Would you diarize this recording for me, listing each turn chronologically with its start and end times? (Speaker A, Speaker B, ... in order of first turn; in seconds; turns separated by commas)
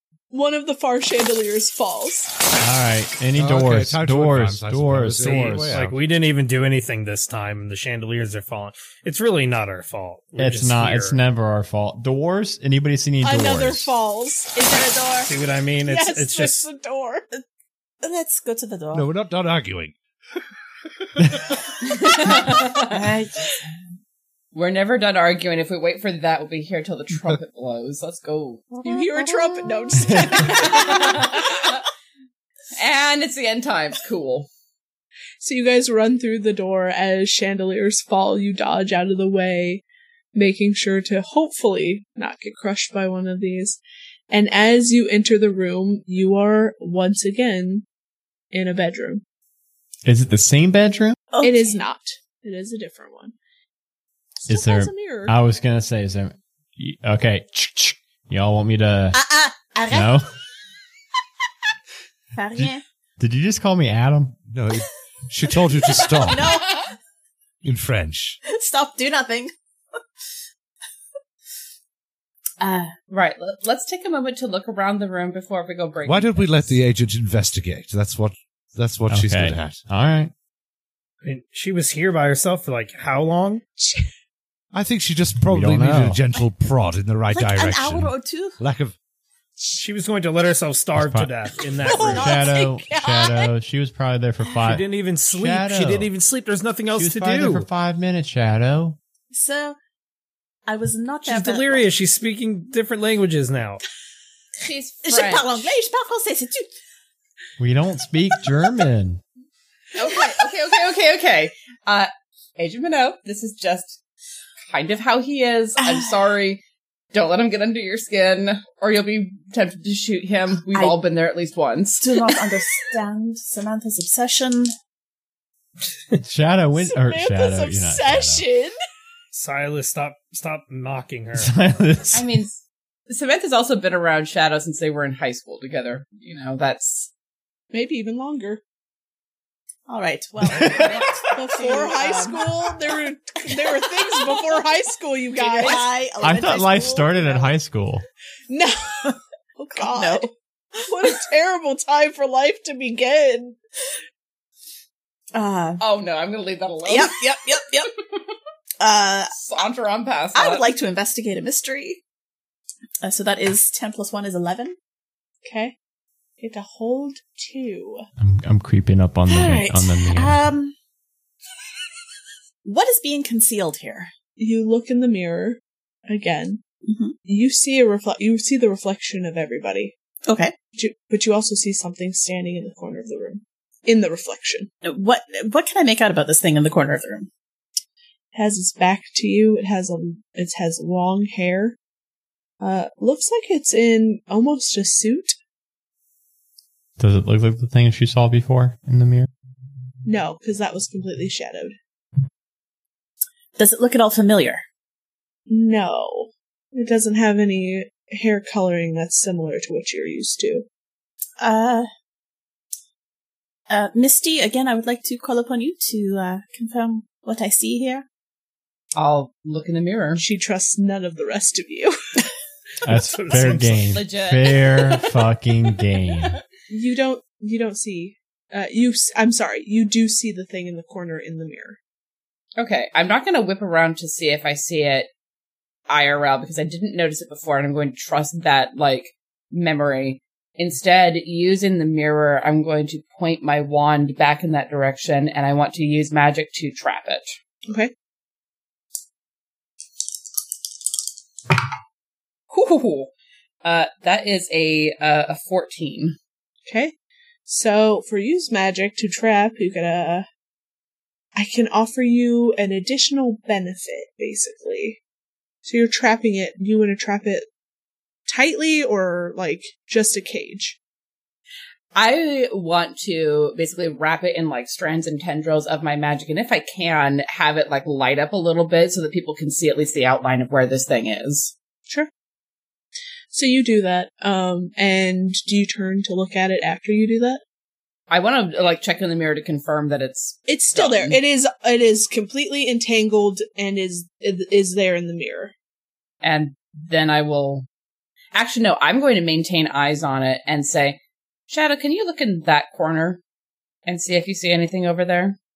Speaker A: 0.3-2.3, Speaker B: 2.6-5.8, Speaker C: 3.4-6.0, Speaker D: 5.2-11.2, Speaker B: 10.4-13.9, Speaker A: 13.2-15.0, Speaker E: 14.5-15.3, Speaker D: 15.3-16.7, Speaker A: 15.9-17.3, Speaker E: 18.0-19.1, Speaker C: 18.9-20.4, Speaker C: 21.0-21.6, Speaker F: 21.9-23.1, Speaker E: 22.2-23.6, Speaker F: 24.5-28.8, Speaker A: 28.8-31.4, Speaker E: 28.9-29.9, Speaker F: 30.4-31.9, Speaker F: 32.7-34.5, Speaker A: 35.4-39.8, Speaker A: 40.3-47.9, Speaker A: 48.5-49.2, Speaker B: 50.0-51.2, Speaker E: 51.3-51.8, Speaker A: 51.4-53.4, Speaker A: 54.4-55.4, Speaker B: 54.5-59.2, Speaker E: 59.1-60.2, Speaker B: 59.9-60.3, Speaker E: 62.4-62.8, Speaker B: 63.2-64.4, Speaker C: 64.5-66.5, Speaker E: 65.7-66.9, Speaker C: 67.6-68.4, Speaker E: 68.5-69.5, Speaker E: 72.6-72.9, Speaker F: 73.1-76.8, Speaker C: 76.0-79.8, Speaker B: 79.1-80.3, Speaker D: 81.2-83.6, Speaker A: 83.8-84.1, Speaker C: 84.7-89.0, Speaker B: 85.5-86.2, Speaker E: 87.3-88.6, Speaker D: 89.7-92.4, Speaker B: 91.0-91.3, Speaker E: 91.8-92.8, Speaker A: 91.9-93.3, Speaker B: 92.0-96.1, Speaker D: 94.6-97.7, Speaker B: 96.9-99.0, Speaker E: 99.3-99.8, Speaker E: 100.7-101.9, Speaker D: 101.3-103.8, Speaker F: 104.6-105.6, Speaker E: 105.0-106.7, Speaker B: 107.6-109.2, Speaker F: 110.0-114.0, Speaker F: 114.7-116.6, Speaker E: 115.8-116.3, Speaker F: 117.1-122.3, Speaker E: 120.7-121.0, Speaker E: 122.0-124.7, Speaker B: 126.2-128.4, Speaker A: 126.8-128.8, Speaker D: 129.3-131.5, Speaker B: 131.4-132.4, Speaker F: 132.1-137.1, Speaker A: 137.7-138.6, Speaker E: 139.9-142.7, Speaker B: 140.5-141.1, Speaker A: 141.3-145.9, Speaker E: 143.5-144.4, Speaker E: 145.3-147.5, Speaker B: 146.2-148.1, Speaker A: 148.5-153.6, Speaker E: 149.7-150.3, Speaker E: 155.3-155.8, Speaker F: 155.8-157.2, Speaker E: 156.8-157.9, Speaker E: 158.8-159.3, Speaker F: 159.3-160.7, Speaker E: 160.3-162.0, Speaker E: 163.0-164.8, Speaker A: 165.4-165.8, Speaker A: 166.4-168.1, Speaker B: 168.2-170.4, Speaker E: 169.3-170.8, Speaker E: 172.6-174.1, Speaker A: 174.4-176.6, Speaker E: 176.8-177.2, Speaker A: 177.3-179.9, Speaker E: 180.3-180.5, Speaker A: 180.8-184.7, Speaker E: 184.8-187.3, Speaker A: 188.3-191.8, Speaker A: 192.6-195.4, Speaker B: 197.0-199.3, Speaker A: 200.1-201.8, Speaker E: 203.6-204.6, Speaker A: 205.5-210.7, Speaker E: 211.4-211.9, Speaker E: 213.7-218.1, Speaker F: 218.9-220.2, Speaker A: 220.2-222.3, Speaker B: 222.8-226.4, Speaker D: 222.9-224.0, Speaker F: 223.5-225.2, Speaker A: 226.7-231.8, Speaker F: 232.6-235.1, Speaker F: 235.9-247.3, Speaker F: 252.5-253.1, Speaker F: 253.6-256.2, Speaker A: 256.7-256.9, Speaker A: 257.5-260.3, Speaker A: 261.4-265.0, Speaker A: 265.6-267.5, Speaker A: 268.3-270.8, Speaker F: 271.9-281.5, Speaker A: 283.3-287.4, Speaker F: 288.1-291.2, Speaker A: 290.5-295.5, Speaker F: 296.2-297.7, Speaker F: 298.3-303.2, Speaker F: 303.9-305.4